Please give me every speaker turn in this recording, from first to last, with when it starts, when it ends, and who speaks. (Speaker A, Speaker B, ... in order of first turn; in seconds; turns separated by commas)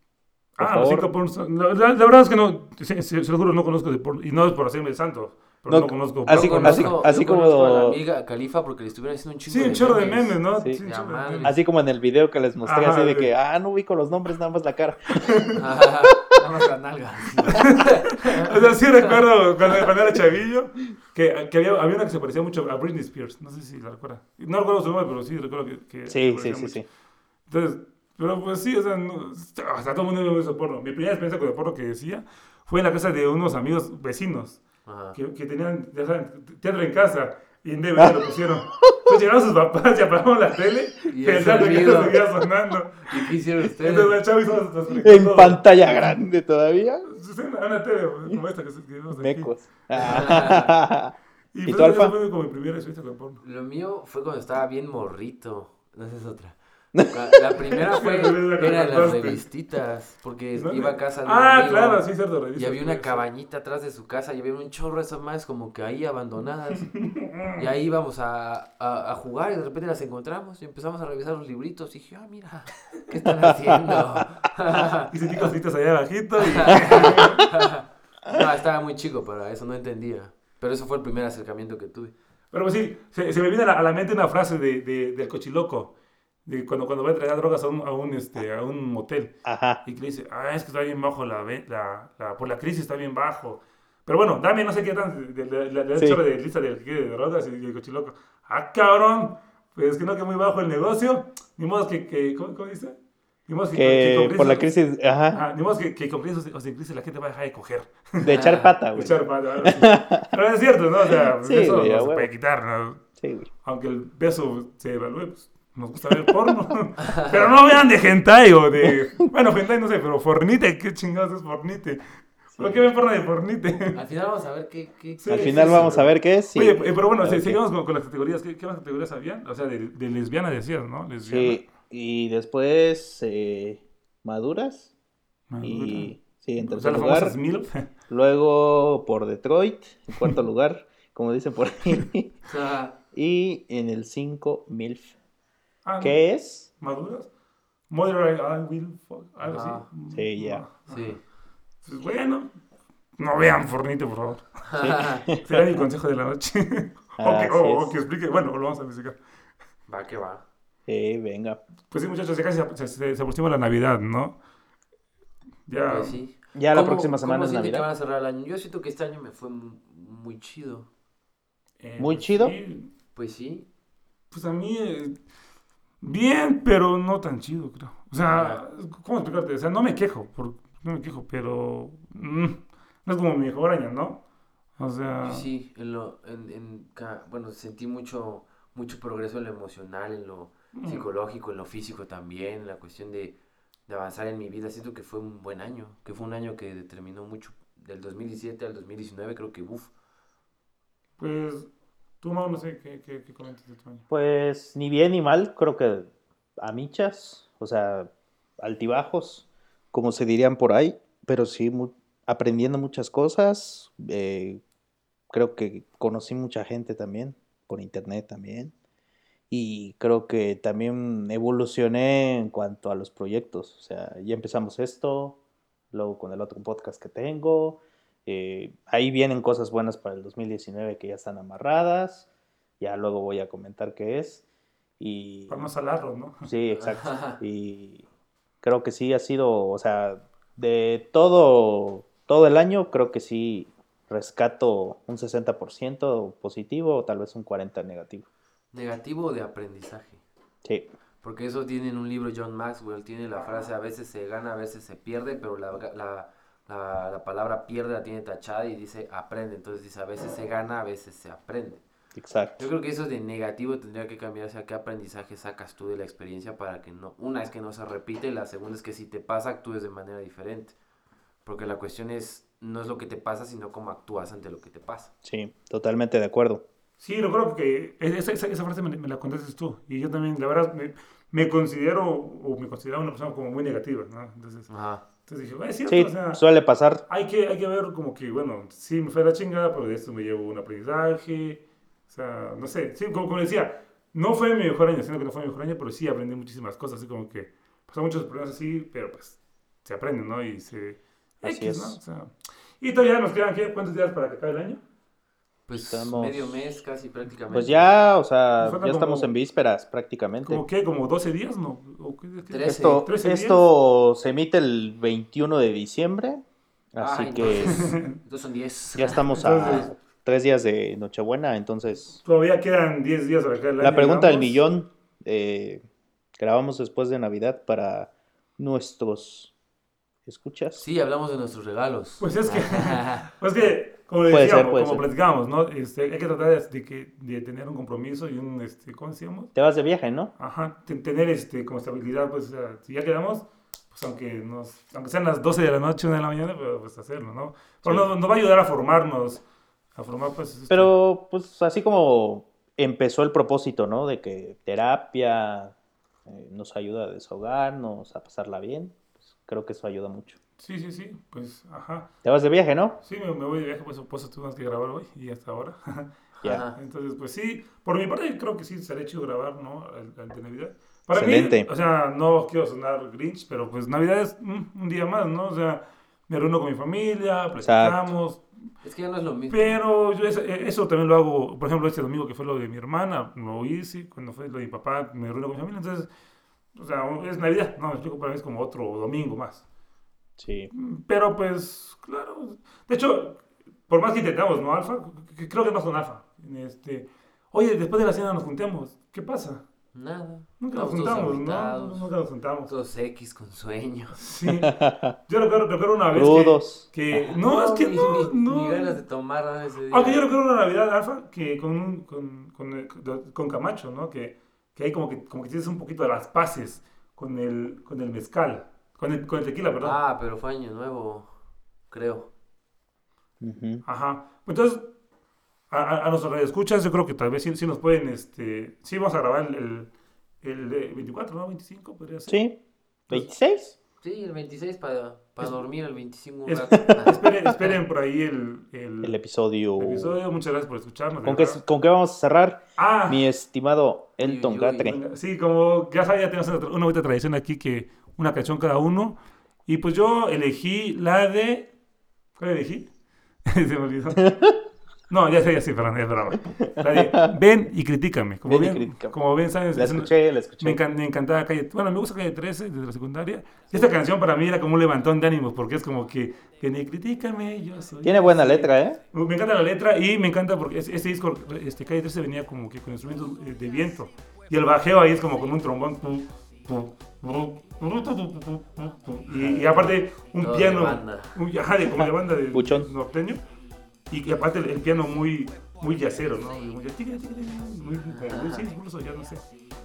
Speaker A: 0.6-7.0, Speaker B: 0.6-1.1, Speaker B: 5.7-8.0, Speaker C: 6.3-11.6, Speaker A: 9.5-11.5, Speaker B: 11.4-15.6, Speaker A: 12.6-13.3, Speaker A: 15.2-15.6, Speaker C: 15.5-19.1, Speaker A: 17.5-26.8, Speaker B: 26.1-26.9, Speaker A: 27.5-34.6, Speaker C: 34.8-35.2, Speaker A: 35.1-45.6, Speaker B: 38.0-38.3, Speaker B: 38.8-39.1, Speaker C: 41.1-42.2, Speaker C: 43.0-44.2, Speaker B: 44.9-47.1, Speaker A: 47.1-50.4, Speaker B: 49.1-51.1, Speaker C: 50.0-50.7, Speaker A: 51.5-53.4, Speaker B: 51.6-52.1, Speaker C: 53.4-66.9, Speaker B: 56.9-57.2, Speaker A: 57.7-59.4, Speaker A: 60.5-63.2, Speaker A: 66.9-67.7, Speaker C: 67.5-75.1, Speaker A: 75.1-77.5, Speaker C: 76.4-82.1, Speaker A: 82.5-85.9, Speaker A: 86.5-103.0, Speaker B: 89.4-89.8, Speaker B: 96.0-96.2, Speaker A: 103.5-104.7, Speaker B: 103.7-105.4, Speaker A: 105.3-108.3, Speaker B: 108.2-110.3, Speaker C: 108.2-108.7, Speaker A: 108.9-113.0, Speaker B: 111.0-112.3, Speaker B: 113.2-113.5, Speaker A: 113.6-122.0, Speaker A: 122.5-124.0, Speaker B: 122.6-122.8, Speaker C: 123.9-126.1, Speaker A: 125.2-126.0, Speaker B: 125.3-127.6, Speaker A: 126.5-131.6, Speaker B: 131.2-134.9, Speaker A: 135.5-137.8, Speaker B: 135.6-137.3, Speaker B: 138.1-142.3, Speaker C: 142.4-142.9, Speaker B: 143.1-145.1, Speaker A: 145.8-146.2, Speaker B: 146.0-146.7, Speaker A: 146.8-147.3, Speaker A: 147.9-151.1, Speaker C: 149.4-149.8, Speaker B: 150.1-150.6, Speaker C: 150.9-151.2, Speaker A: 151.8-152.5, Speaker A: 153.2-154.6, Speaker C: 154.7-155.2, Speaker B: 154.8-155.8, Speaker A: 155.4-159.2, Speaker B: 157.2-157.9, Speaker C: 159.9-160.4, Speaker B: 160.9-161.6, Speaker A: 161.9-164.3, Speaker A: 165.7-166.2, Speaker C: 165.9-170.9, Speaker B: 166.5-167.9, Speaker A: 171.8-172.9, Speaker B: 172.0-172.5, Speaker C: 173.1-173.7, Speaker A: 174.3-175.2, Speaker A: 176.0-184.2, Speaker C: 178.3-178.6, Speaker A: 184.8-185.4, Speaker C: 185.2-199.9, Speaker A: 190.7-191.0, Speaker A: 201.2-201.7, Speaker A: 202.2-204.0, Speaker B: 204.1-206.1, Speaker B: 206.6-214.6, Speaker B: 215.3-218.7, Speaker B: 219.5-225.4, Speaker B: 225.9-232.2, Speaker B: 232.8-234.4, Speaker B: 235.0-235.7, Speaker A: 235.5-236.5, Speaker B: 236.4-238.0, Speaker C: 236.8-237.4, Speaker B: 238.6-248.2, Speaker C: 248.7-250.2, Speaker B: 250.6-250.9, Speaker C: 251.2-261.8, Speaker B: 262.1-262.7, Speaker C: 262.6-270.7, Speaker C: 271.4-275.1, Speaker B: 275.2-276.6, Speaker A: 277.0-284.7, Speaker C: 284.7-285.0, Speaker A: 285.2-286.4, Speaker B: 285.9-287.0, Speaker A: 287.1-304.8, Speaker B: 301.4-302.0, Speaker C: 305.7-307.9, Speaker B: 305.7-306.6, Speaker B: 307.5-310.6, Speaker A: 308.6-309.3, Speaker A: 310.4-313.6, Speaker C: 312.5-313.1, Speaker B: 312.6-316.4, Speaker B: 316.9-317.9, Speaker C: 317.0-319.8, Speaker A: 317.5-318.1, Speaker B: 318.9-322.2, Speaker A: 319.4-319.9, Speaker A: 322.2-324.6, Speaker B: 323.8-325.8, Speaker B: 326.4-329.5, Speaker B: 330.2-330.8, Speaker C: 330.8-333.3, Speaker A: 332.2-339.5, Speaker B: 334.3-335.0, Speaker B: 339.5-340.3, Speaker A: 340.4-349.4, Speaker A: 349.9-350.9, Speaker B: 350.7-355.7, Speaker B: 356.2-360.4, Speaker A: 360.6-362.1, Speaker B: 362.2-363.0, Speaker A: 363.0-366.1, Speaker C: 366.4-366.8, Speaker A: 366.7-378.4, Speaker B: 371.1-371.7, Speaker B: 377.6-378.1, Speaker C: 378.8-379.8, Speaker A: 379.5-386.1, Speaker A: 386.7-389.6, Speaker B: 390.4-390.7, Speaker A: 390.7-399.6, Speaker C: 399.9-402.1, Speaker A: 400.6-402.7, Speaker C: 402.7-404.2, Speaker A: 404.2-404.7, Speaker B: 404.6-405.1, Speaker A: 405.3-409.0, Speaker B: 406.1-406.9, Speaker C: 407.1-410.2, Speaker A: 409.9-420.0, Speaker C: 419.8-421.3, Speaker C: 421.9-422.3, Speaker B: 423.4-423.8, Speaker A: 423.9-424.9, Speaker A: 425.7-429.9, Speaker A: 430.4-432.4, Speaker B: 432.3-433.8, Speaker C: 434.0-437.7, Speaker A: 436.5-439.2, Speaker B: 439.0-440.2, Speaker A: 439.8-441.6, Speaker B: 441.2-445.0, Speaker A: 442.8-443.2, Speaker C: 444.2-444.9, Speaker A: 444.8-451.7, Speaker A: 452.4-452.9, Speaker A: 453.4-454.3, Speaker B: 454.2-454.6, Speaker A: 455.1-483.4, Speaker B: 456.7-457.3, Speaker B: 458.4-459.1, Speaker B: 459.7-460.8, Speaker B: 468.0-469.0, Speaker C: 479.3-481.4, Speaker B: 481.9-482.9, Speaker A: 484.1-489.4, Speaker C: 488.1-488.7